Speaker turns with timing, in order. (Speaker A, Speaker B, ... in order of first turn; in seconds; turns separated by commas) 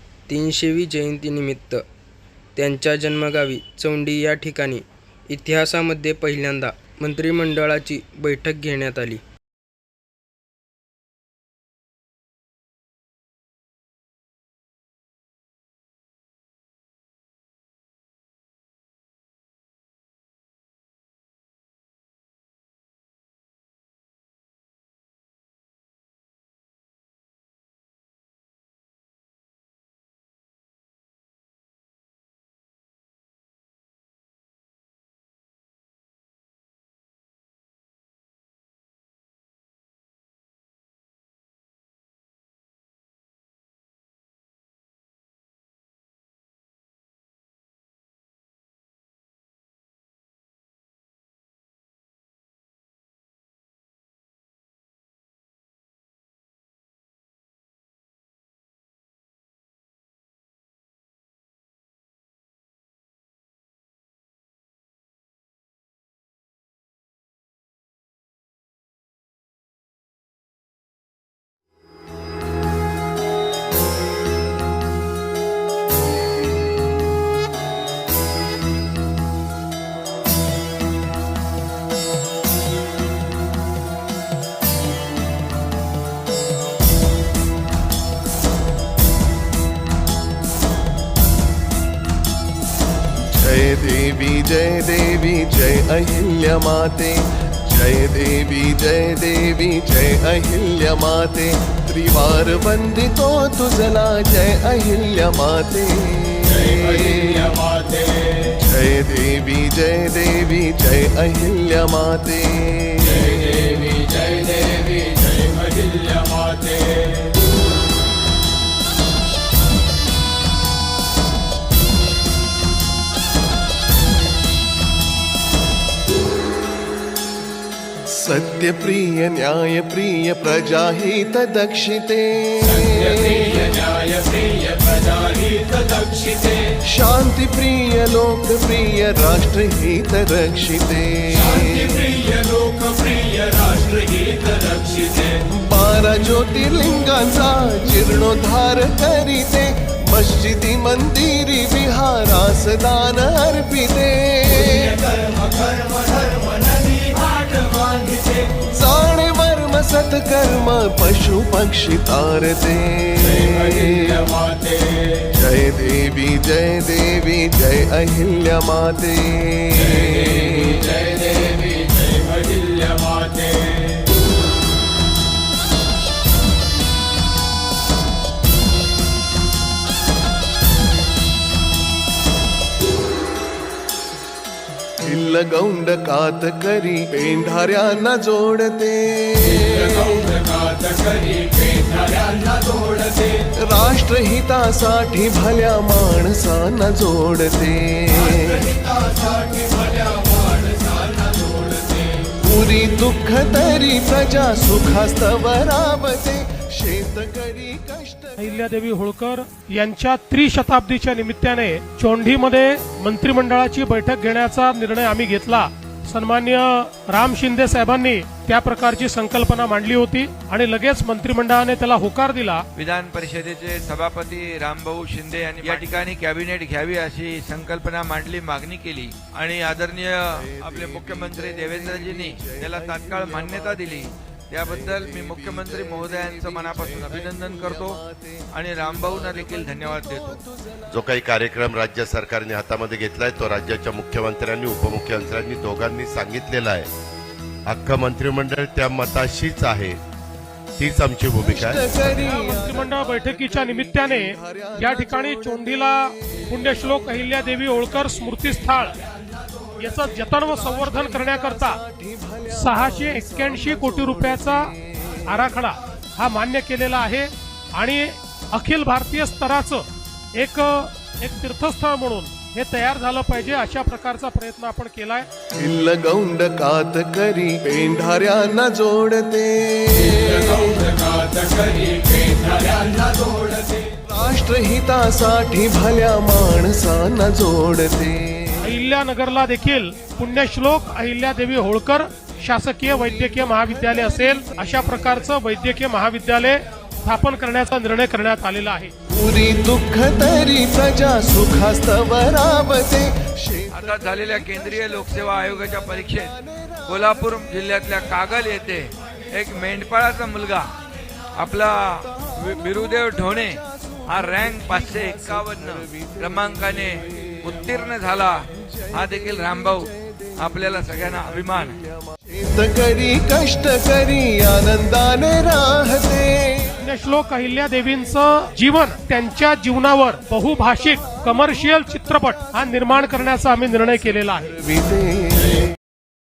Speaker A: 0.3-1.8, Speaker A: 2.5-9.2, Speaker B: 93.2-107.7, Speaker B: 108.4-113.7, Speaker B: 128.1-133.8, Speaker B: 136.8-142.2, Speaker B: 145.5-155.0, Speaker B: 158.6-164.3, Speaker B: 165.2-171.0, Speaker B: 185.0-190.4, Speaker B: 193.6-198.7, Speaker B: 202.4-208.7, Speaker C: 208.4-222.6, Speaker D: 222.7-238.0, Speaker B: 230.3-241.0, Speaker D: 238.5-240.4, Speaker E: 240.9-246.9, Speaker E: 247.7-250.0, Speaker E: 250.8-252.1, Speaker B: 251.4-255.9, Speaker C: 252.2-258.9, Speaker C: 259.8-261.8, Speaker B: 260.6-265.2, Speaker C: 262.5-264.7, Speaker C: 265.3-275.3, Speaker B: 275.6-280.9, Speaker B: 283.9-288.7, Speaker C: 288.6-298.9, Speaker B: 293.3-294.7, Speaker B: 299.1-307.3, Speaker D: 303.7-306.3, Speaker D: 306.9-310.7, Speaker D: 311.4-321.8, Speaker B: 313.3-317.9, Speaker B: 318.6-326.8, Speaker C: 326.8-334.6, Speaker B: 334.6-335.6